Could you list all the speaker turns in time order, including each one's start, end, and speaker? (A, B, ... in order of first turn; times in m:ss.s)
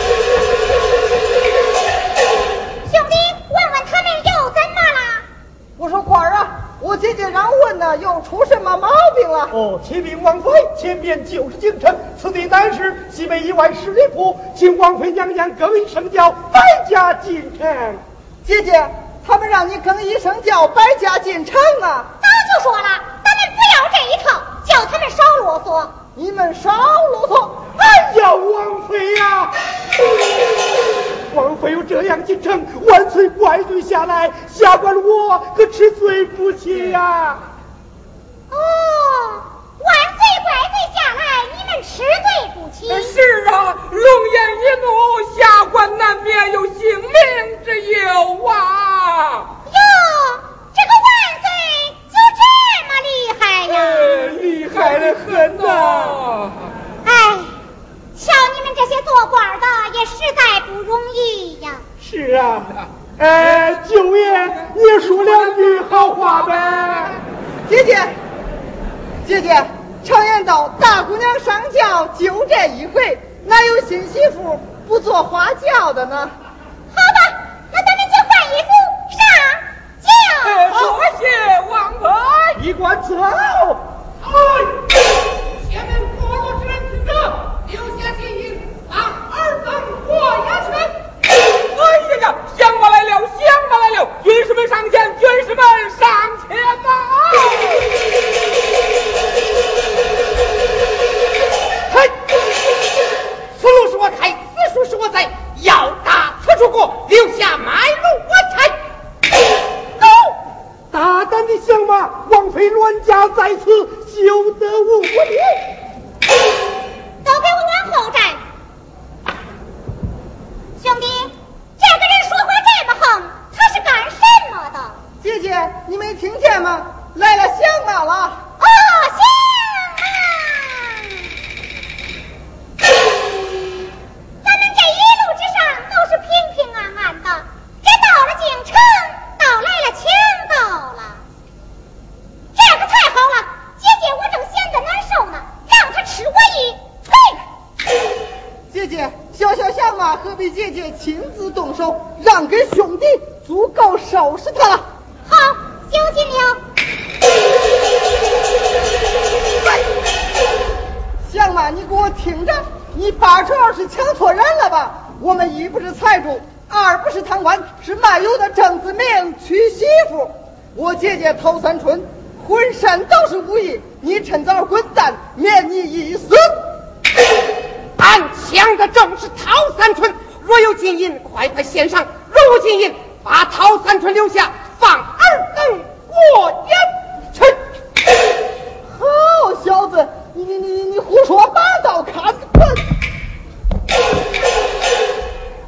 0:02.9-0:05.3 A
0:05.8-0:09.5 B
0:09.6-0:18.0 C
0:18.4-0:22.1 B
0:22.2-0:26.0 A
0:26.2-0:27.7 B
0:27.8-0:29.5 C
0:31.3-0:37.4 C
0:38.5-0:43.2 A
0:42.9-0:49.5 D
0:49.7-0:54.4 A
0:54.2-0:56.3 C
0:54.9-0:56.5 D
0:57.0-0:57.6 A
0:58.2-1:01.9 A
1:02.0-1:07.2 C
1:07.7-1:08.2 B
1:09.2-1:16.3 B
1:16.9-1:20.8 A
1:20.5-1:22.6 D
1:22.9-1:23.8 B
1:24.2-1:24.7 E
1:25.5-1:30.9 E
1:31.7-1:37.6 D
1:43.6-1:48.8 E
1:50.9-1:55.6 C
1:57.2-1:58.4 A
2:00.8-2:05.0 A
2:05.2-2:08.4 B
2:08.6-2:11.2 A
2:14.4-2:21.2 A
2:22.5-2:27.4 A
2:28.7-2:34.9 B
2:35.3-2:36.6 A
2:41.2-2:56.6 B
2:58.0-3:07.6 E
3:08.9-3:12.8 B